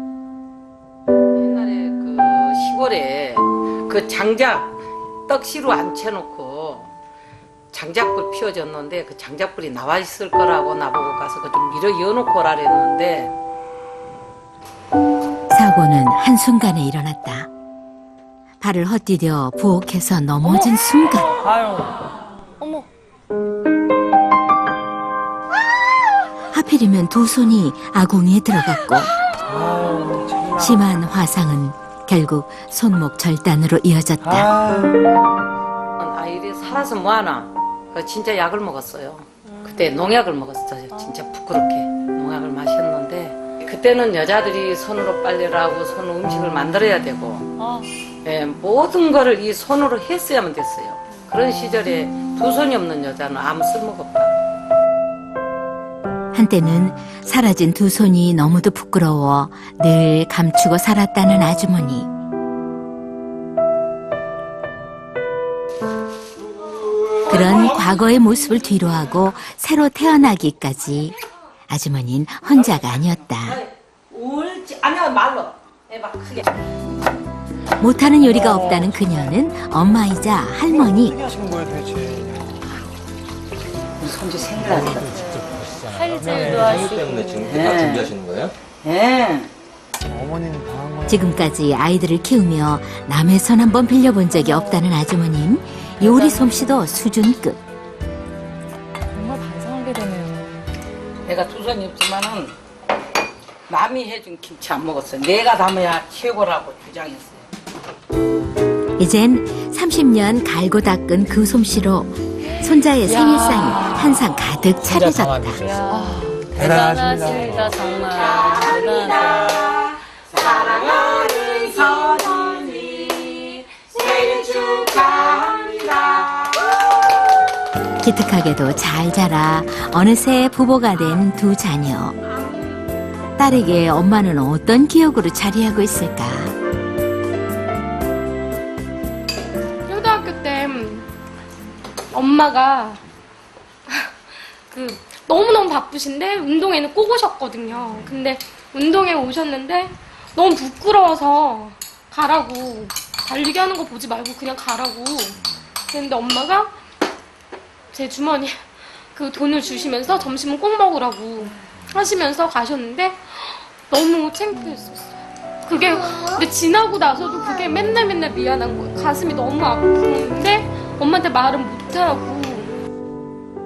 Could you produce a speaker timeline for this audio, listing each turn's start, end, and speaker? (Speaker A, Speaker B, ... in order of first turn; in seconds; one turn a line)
Speaker A: 1.3-4.8
Speaker A: 5.3-6.9
Speaker A: 7.7-13.3
Speaker B: 15.5-17.5
Speaker B: 18.6-21.3
Speaker B: 26.5-29.1
Speaker C: 29.4-30.8
Speaker B: 30.6-34.5
Speaker C: 34.2-34.9
Speaker A: 36.0-47.5
Speaker D: 39.6-39.8
Speaker D: 40.9-41.3
Speaker D: 47.6-47.9
Speaker A: 48.2-54.4
Speaker B: 56.3-62.1
Speaker B: 67.3-71.2
Speaker B: 71.7-73.6
Speaker A: 72.6-76.7
Speaker B: 77.8-81.2
Speaker C: 78.2-79.3
Speaker C: 80.7-82.6
Speaker A: 84.0-85.2
Speaker D: 85.0-87.6
Speaker E: 85.9-88.5
Speaker C: 86.0-87.0
Speaker A: 87.4-88.1
Speaker A: 88.8-89.5
Speaker C: 90.1-91.2
Speaker B: 91.1-97.6
Speaker D: 94.3-94.8
Speaker D: 96.0-96.6
Speaker D: 99.1-100.7
Speaker A: 101.2-102.5
Speaker A: 103.7-107.5
Speaker B: 109.0-115.6
Speaker D: 113.0-114.1
Speaker D: 115.6-119.7
Speaker C: 116.5-117.6
Speaker A: 118.2-126.7
Speaker B: 128.0-132.2
Speaker B: 133.4-136.5
Speaker F: 139.8-141.1
Speaker F: 142.1-143.0
Speaker F: 143.9-144.1
Speaker F: 144.7-156.7
Speaker F: 157.9-172.7